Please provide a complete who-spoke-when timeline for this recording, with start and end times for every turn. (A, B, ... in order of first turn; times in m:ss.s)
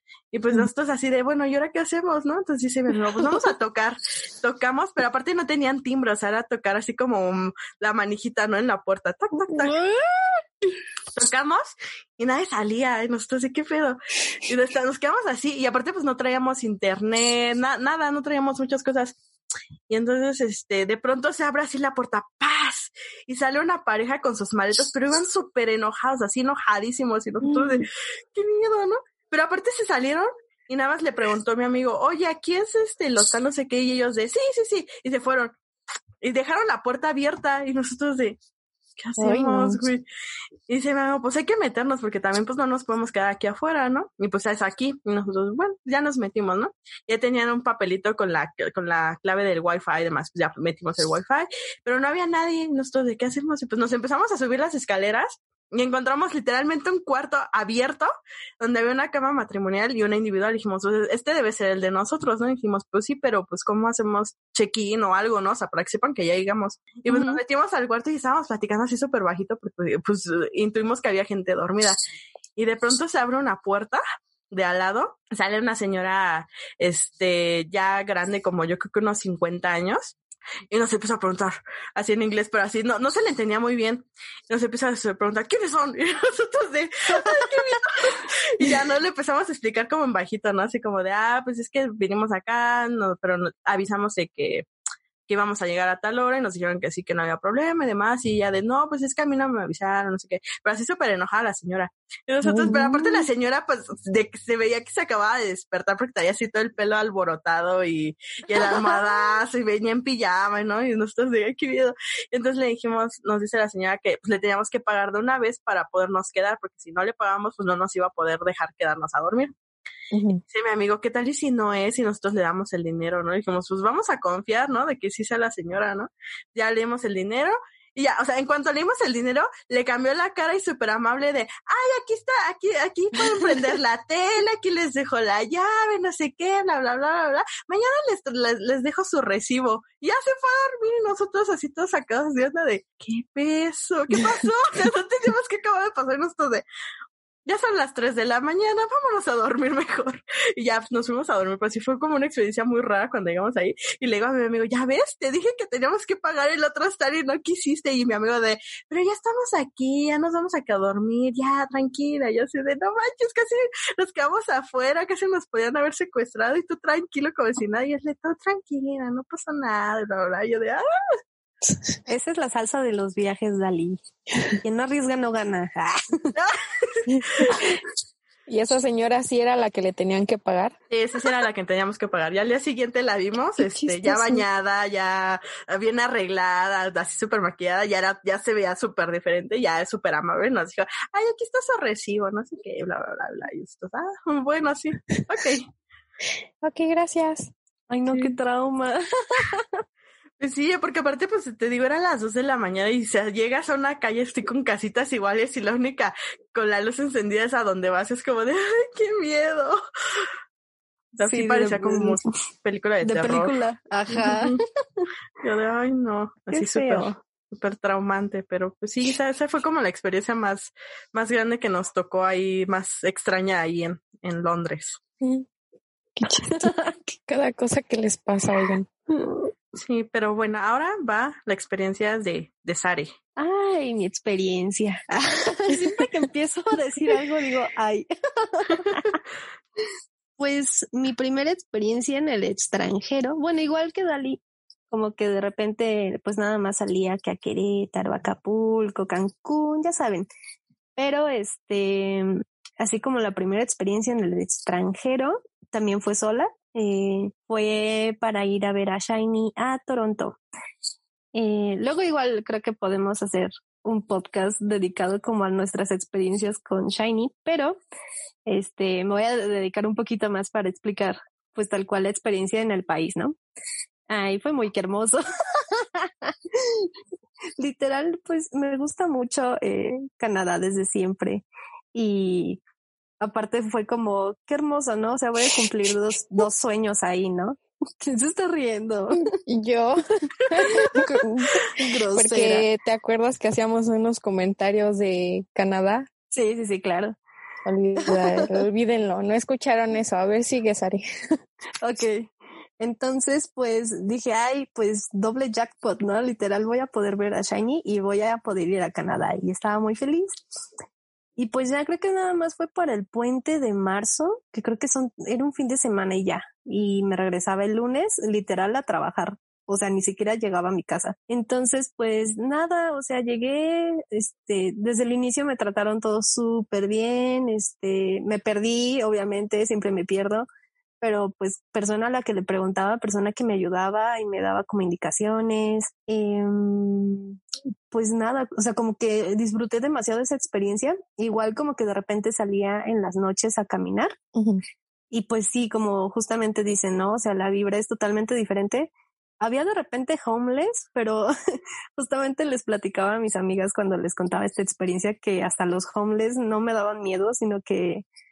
0:00.3-0:09.7 A
0:09.5-0:09.7 B
0:11.1-0:19.2 A
0:19.9-0:35.5 A
0:27.5-0:27.7 B
0:36.2-0:38.4 A
0:39.0-0:40.0 A
0:39.2-0:39.8 B
0:40.7-1:12.0 A
1:07.1-1:07.4 C
1:12.6-1:20.2 A
1:20.7-1:34.6 A
1:27.1-1:27.8 C
1:35.3-1:59.5 A
1:42.4-1:43.2 B
2:00.1-2:00.4 B
2:00.5-2:26.6 A
2:27.4-2:50.8 A
2:52.1-2:54.0 C
2:54.6-2:56.3 C
2:56.4-2:57.6 A
2:57.1-2:57.8 B
2:58.5-3:00.7 B
3:00.9-3:15.7 A
3:03.6-3:04.4 B
3:16.6-3:17.5 B
3:17.9-3:19.6 C
3:20.4-3:30.3 A
3:31.2-3:33.5 A
3:31.2-3:32.2 C
3:33.0-3:34.6 C
3:34.1-3:34.6 A
3:35.4-3:45.0 A
3:36.5-3:37.2 C
3:45.2-3:45.4 B
3:46.2-3:48.9 B
3:46.6-3:46.9 C
3:49.8-3:53.1 A
3:53.4-3:59.1 C
4:00.4-4:04.4 C
4:04.9-4:10.3 C
4:11.0-4:20.4 C
4:21.3-4:27.8 C
4:28.5-4:33.4 C
4:34.1-4:36.9 C
4:37.6-4:42.6 C
4:43.2-4:49.3 C
4:49.4-4:56.0 B
4:50.6-4:51.1 C
4:51.7-4:52.6 C
4:56.3-4:57.1 C
4:57.6-5:01.0 B
4:58.0-4:58.5 C
5:01.8-5:02.3 C
5:02.8-5:10.3 C
5:11.4-5:30.5 C
5:31.0-5:37.4 C
5:37.9-5:44.2 C
5:44.3-5:44.6 B
5:45.1-5:51.3 C
5:52.0-5:58.0 C